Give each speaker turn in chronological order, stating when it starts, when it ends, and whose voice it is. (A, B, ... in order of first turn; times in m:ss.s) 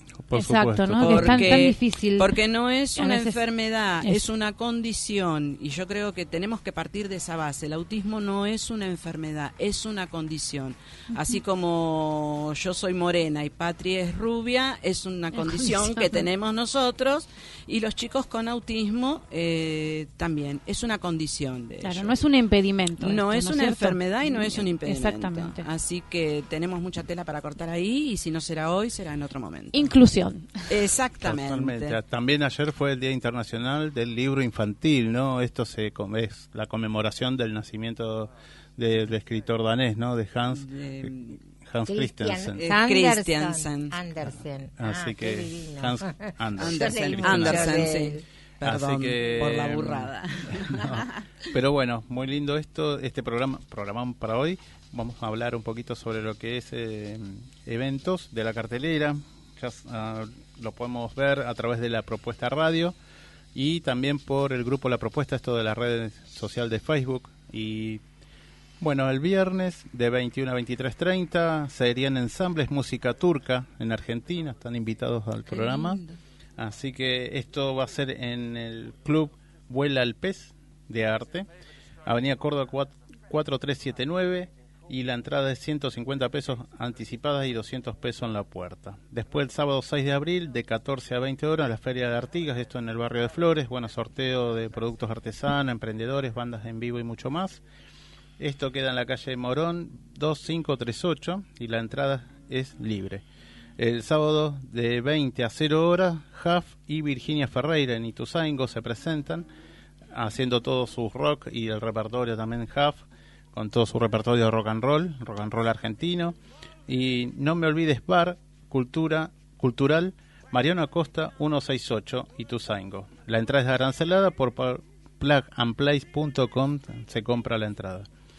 0:00.2-0:01.5 A
0:00.3-0:02.4 B
0:01.0-0:22.1 C
0:02.9-0:03.4 B
0:15.3-0:16.2 B
0:21.8-0:25.6 B
0:23.0-0:29.9 C
0:29.7-0:30.5 B
0:30.7-0:32.0 C
0:31.2-0:42.6 A
0:40.5-0:41.4 C
0:41.8-0:48.2 D
0:42.6-0:43.9 C
0:44.8-0:47.9 A
0:46.6-0:51.2 C
0:48.6-1:02.9 A
1:03.5-1:08.0 A
1:08.8-1:16.0 A
1:15.5-1:16.0 C
1:16.6-1:21.5 A
1:22.0-1:37.6 A
1:38.4-1:43.2 A
1:43.8-1:49.4 A
1:50.1-1:56.3 A
1:56.9-2:08.1 A